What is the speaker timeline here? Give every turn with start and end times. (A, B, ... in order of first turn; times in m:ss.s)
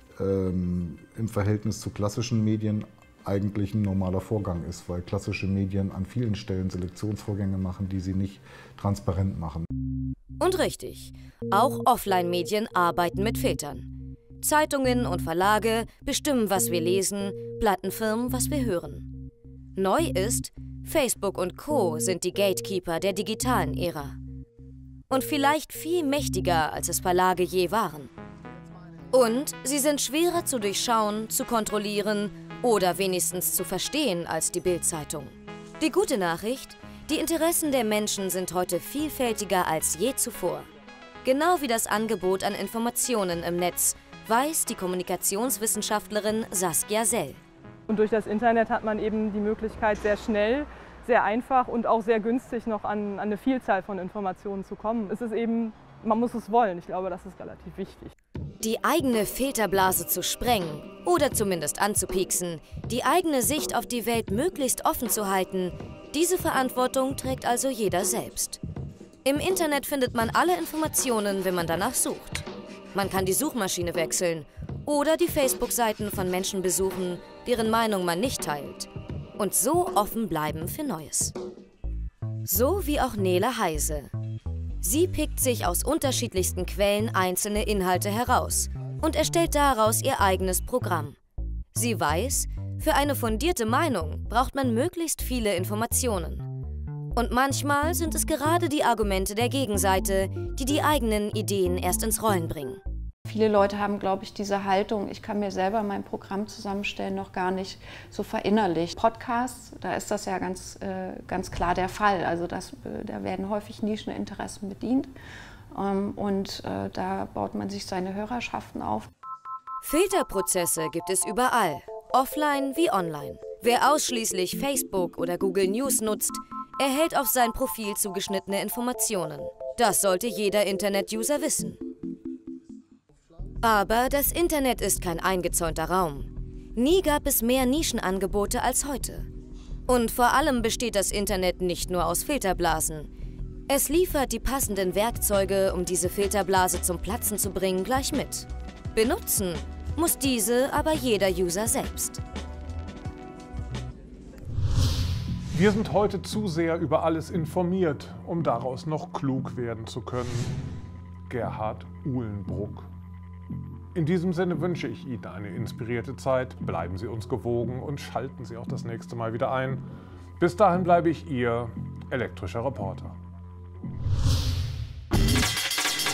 0:00.2-0:09.7 A
0:10.4-0:13.9 B
0:14.4-0:19.1 B
0:19.8-0:24.2 B
0:25.1-0:28.1 B
0:29.1-0:40.7 B
0:41.2-0:47.4 B
0:47.9-0:58.1 C
0:58.6-1:08.6 B
1:09.2-1:21.3 B
1:22.5-1:24.1 B
1:24.8-1:31.2 B
1:31.8-1:36.5 B
1:37.2-1:42.8 B
1:43.3-1:55.1 D
1:55.7-1:59.1 D
1:59.8-2:11.8 B
2:13.6-2:19.3 B
2:19.9-2:23.1 B
2:23.7-2:32.2 B
2:35.5-2:40.5 E
2:41.3-2:42.9 E
2:44.0-2:49.9 E
2:50.4-2:53.2 E